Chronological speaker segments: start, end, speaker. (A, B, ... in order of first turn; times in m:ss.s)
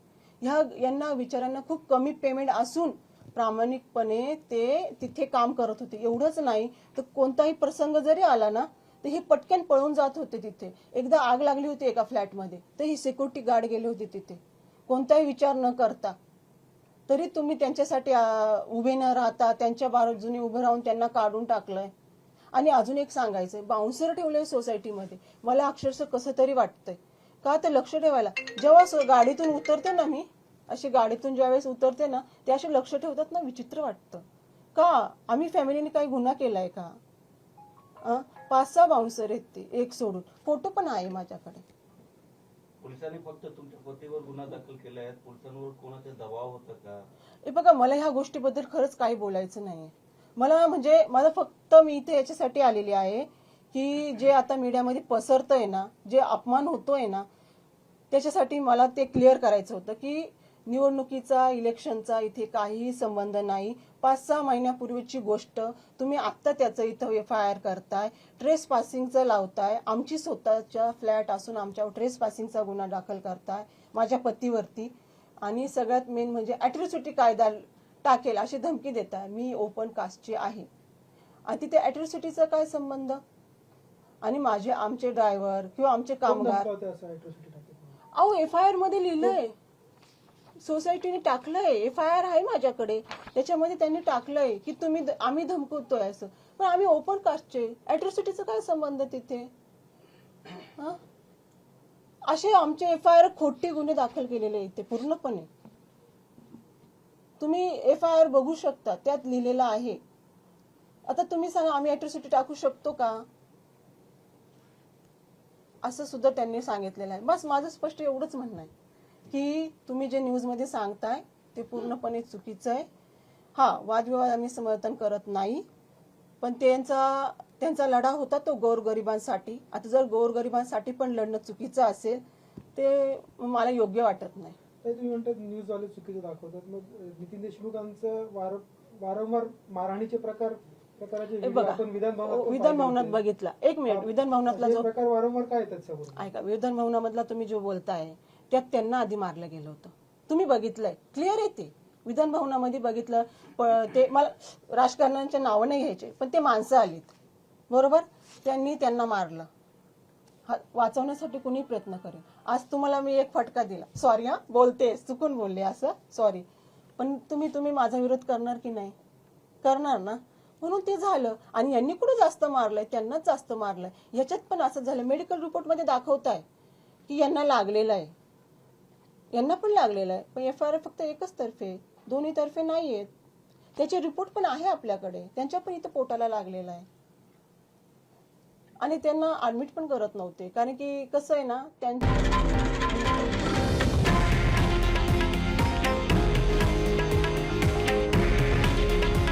0:00.4-0:16.2 A
0:17.1-0:21.9 A
0:22.5-0:37.0 A
0:38.0-0:41.6 A
0:42.8-0:47.0 B
0:47.4-0:57.3 A
0:58.1-1:20.7 A
1:21.5-1:23.2 A
1:24.2-1:26.7 A
1:26.2-1:27.9 C
1:28.1-1:29.5 A
1:30.6-1:39.5 A
1:40.5-1:41.0 A
1:42.3-1:45.5 A
1:47.4-1:50.0 A
1:51.1-1:53.3 A
1:55.8-1:58.7 A
1:59.3-2:02.9 A
2:03.6-2:05.6 A
2:06.4-2:12.2 A
2:12.8-2:14.6 A
2:14.8-2:23.2 C
2:21.4-2:24.9 A
2:23.9-2:26.3 C
2:26.2-2:37.1 A
2:37.7-2:39.5 A
2:40.5-2:46.5 A
2:47.0-2:49.0 A
2:49.6-2:56.4 A
2:57.1-2:58.1 A
2:59.3-3:03.1 A
3:03.8-3:06.9 A
3:08.8-3:13.0 A